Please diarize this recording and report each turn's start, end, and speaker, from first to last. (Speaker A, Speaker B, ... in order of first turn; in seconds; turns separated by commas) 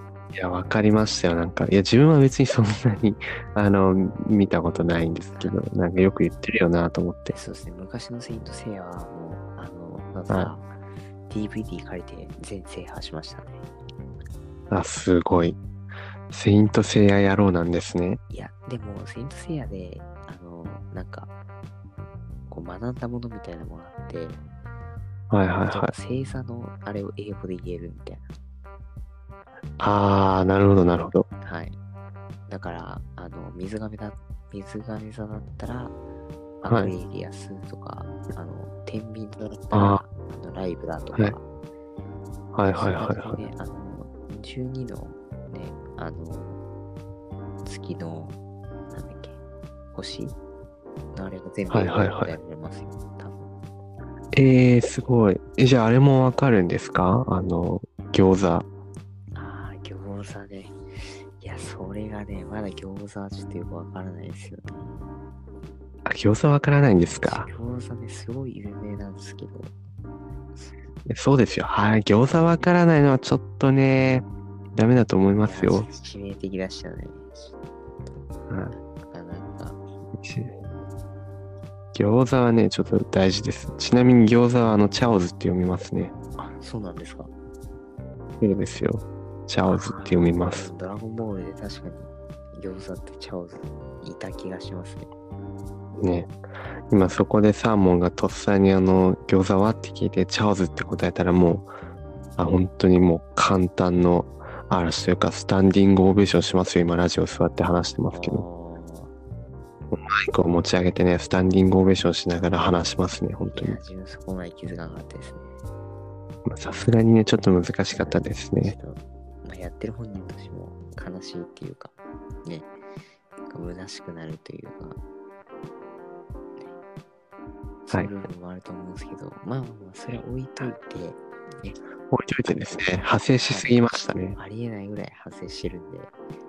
Speaker A: 0.3-7.3, Speaker B: 7.3-10.7, Speaker B: 11.3-13.6, Speaker A: 14.7-15.6, Speaker A: 16.3-18.2, Speaker B: 18.3-21.3, Speaker B: 22.5-24.4, Speaker A: 25.3-25.9, Speaker B: 25.6-28.3, Speaker A: 29.8-31.3, Speaker B: 31.4-31.8, Speaker B: 32.5-35.9, Speaker B: 36.6-41.4, Speaker A: 36.7-36.9, Speaker A: 39.7-40.0, Speaker A: 42.5-43.4, Speaker B: 42.7-46.6, Speaker B: 47.6-48.4, Speaker B: 48.9-49.4, Speaker B: 49.9-50.4, Speaker B: 51.1-53.5, Speaker A: 51.7-52.3, Speaker A: 54.3-58.6, Speaker B: 59.3-65.2, Speaker A: 66.0-67.5, Speaker B: 67.1-69.7, Speaker B: 70.5-70.8, Speaker A: 71.0-75.9, Speaker B: 75.4-77.5, Speaker A: 78.5-78.7, Speaker B: 78.7-79.8, Speaker A: 80.1-80.5, Speaker A: 81.9-86.1, Speaker B: 86.6-87.3, Speaker A: 88.4-90.7, Speaker B: 89.7-95.1, Speaker A: 96.0-96.3, Speaker A: 96.9-101.7, Speaker A: 102.4-108.4, Speaker B: 108.1-109.1, Speaker A: 109.9-113.8, Speaker B: 113.5-115.5, Speaker A: 116.5-118.7, Speaker B: 117.9-122.7, Speaker B: 123.5-125.0, Speaker B: 127.8-131.8, Speaker A: 132.1-134.4, Speaker B: 132.5-132.8, Speaker B: 133.4-136.1